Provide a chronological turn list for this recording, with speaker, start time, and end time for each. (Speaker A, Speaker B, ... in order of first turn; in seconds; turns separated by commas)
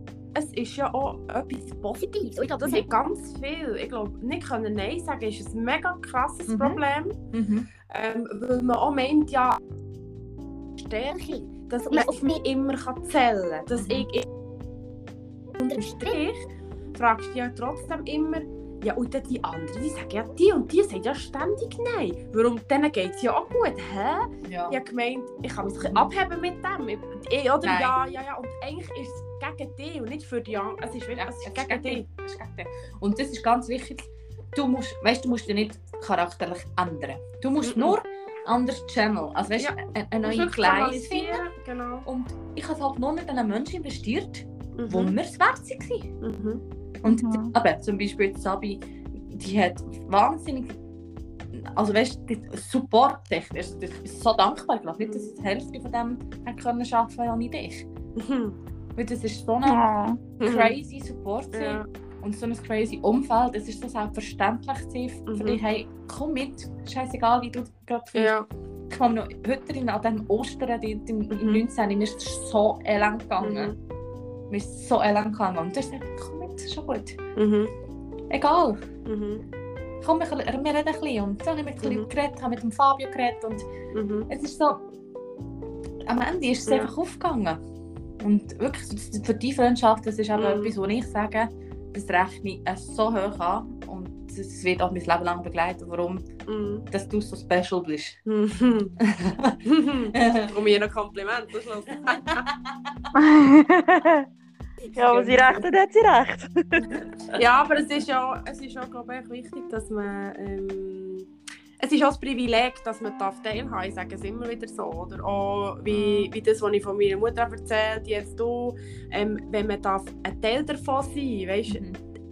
Speaker A: 0.3-7.2, Speaker B: 2.0-2.9, Speaker C: 6.5-6.8, Speaker C: 7.3-7.7, Speaker A: 7.9-9.6, Speaker A: 10.8-14.3, Speaker B: 11.9-12.4, Speaker C: 13.8-14.1, Speaker B: 15.6-16.2, Speaker A: 15.7-32.0, Speaker C: 24.4-24.8, Speaker C: 27.6-28.0, Speaker C: 31.2-41.5, Speaker A: 37.6-38.0, Speaker A: 39.6-42.0, Speaker C: 42.0-46.1, Speaker A: 44.8-45.1, Speaker A: 46.2-46.6, Speaker C: 47.0-50.8, Speaker D: 47.0-47.5, Speaker C: 51.5-57.9, Speaker A: 55.0-55.3, Speaker A: 58.1-58.6, Speaker C: 59.0-59.9, Speaker D: 59.6-60.2, Speaker C: 60.4-68.4, Speaker A: 60.4-60.7, Speaker A: 61.5-61.9, Speaker A: 65.3-65.6, Speaker A: 68.1-68.5, Speaker C: 68.9-73.7, Speaker A: 71.3-71.6, Speaker A: 73.4-73.8, Speaker C: 74.5-77.2, Speaker A: 77.3-77.7, Speaker C: 78.3-78.8, Speaker A: 79.0-79.4, Speaker C: 80.0-83.7, Speaker A: 81.8-82.1, Speaker A: 83.9-84.3, Speaker C: 84.3-84.8, Speaker C: 86.0-87.6, Speaker A: 86.7-86.9, Speaker C: 88.2-96.2, Speaker A: 90.3-90.7, Speaker A: 96.5-96.8, Speaker C: 96.9-98.2, Speaker A: 98.2-98.9, Speaker C: 99.0-99.6, Speaker A: 99.6-102.4, Speaker C: 100.1-100.5, Speaker C: 102.3-102.7, Speaker D: 103.1-104.3, Speaker D: 104.9-106.9, Speaker C: 105.0-105.4, Speaker C: 107.0-107.3, Speaker A: 107.3-121.8, Speaker C: 115.9-116.3, Speaker C: 121.7-122.0